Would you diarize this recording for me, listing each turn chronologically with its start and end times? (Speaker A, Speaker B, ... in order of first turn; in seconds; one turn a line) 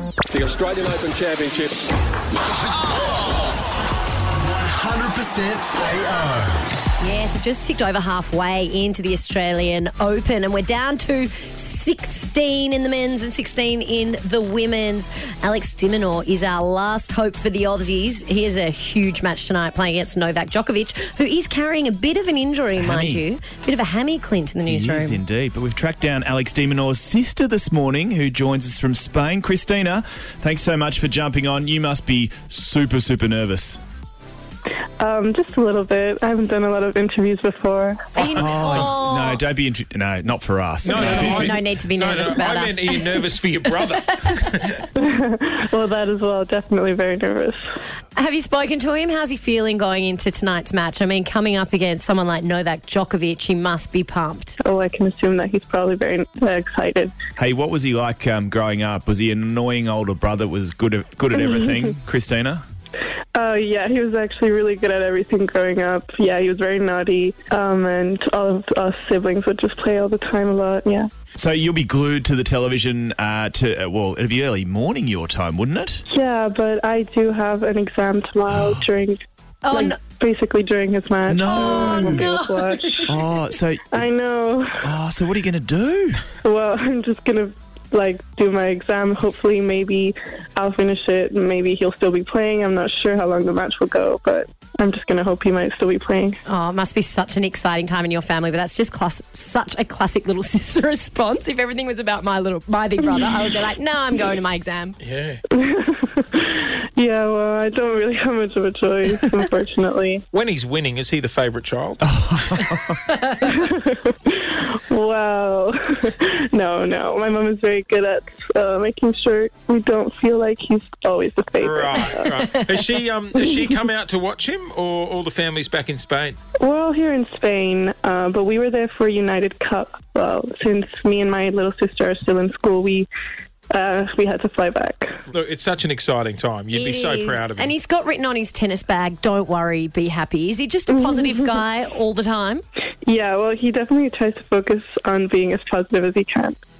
Speaker A: 0.3-1.9
Speaker A: 4.4-6.6
Speaker B: 7.0-25.2
Speaker C: 22.8-23.2
Speaker C: 24.7-33.8
Speaker D: 35.0-38.5
Speaker B: 38.1-39.4
Speaker C: 38.3-41.6
Speaker E: 40.8-44.8
Speaker B: 40.9-43.3
Speaker D: 45.0-47.6
Speaker B: 48.1-54.6
Speaker D: 54.6-57.1
Speaker C: 57.4-62.6
Speaker D: 63.3-71.1
Speaker C: 71.4-76.0
Speaker D: 76.1-83.2
Speaker C: 78.5-78.8
Speaker B: 79.6-80.0
Speaker C: 81.3-82.3
Speaker B: 81.5-83.1
Speaker C: 83.1-84.1
Speaker D: 83.9-84.8
Speaker C: 84.8-86.2
Speaker D: 86.4-96.4
Speaker B: 96.5-105.0
Speaker E: 105.0-105.4
Speaker D: 105.5-110.2
Speaker E: 110.3-112.1
Speaker C: 112.0-113.0
Speaker D: 113.4-122.6
Speaker E: 121.6-126.4
Speaker D: 123.3-123.7
Speaker D: 126.6-133.1
Speaker D: 133.7-135.2
Speaker E: 135.3-137.7
Speaker B: 136.7-142.6
Speaker D: 140.9-141.6
Speaker D: 143.0-146.6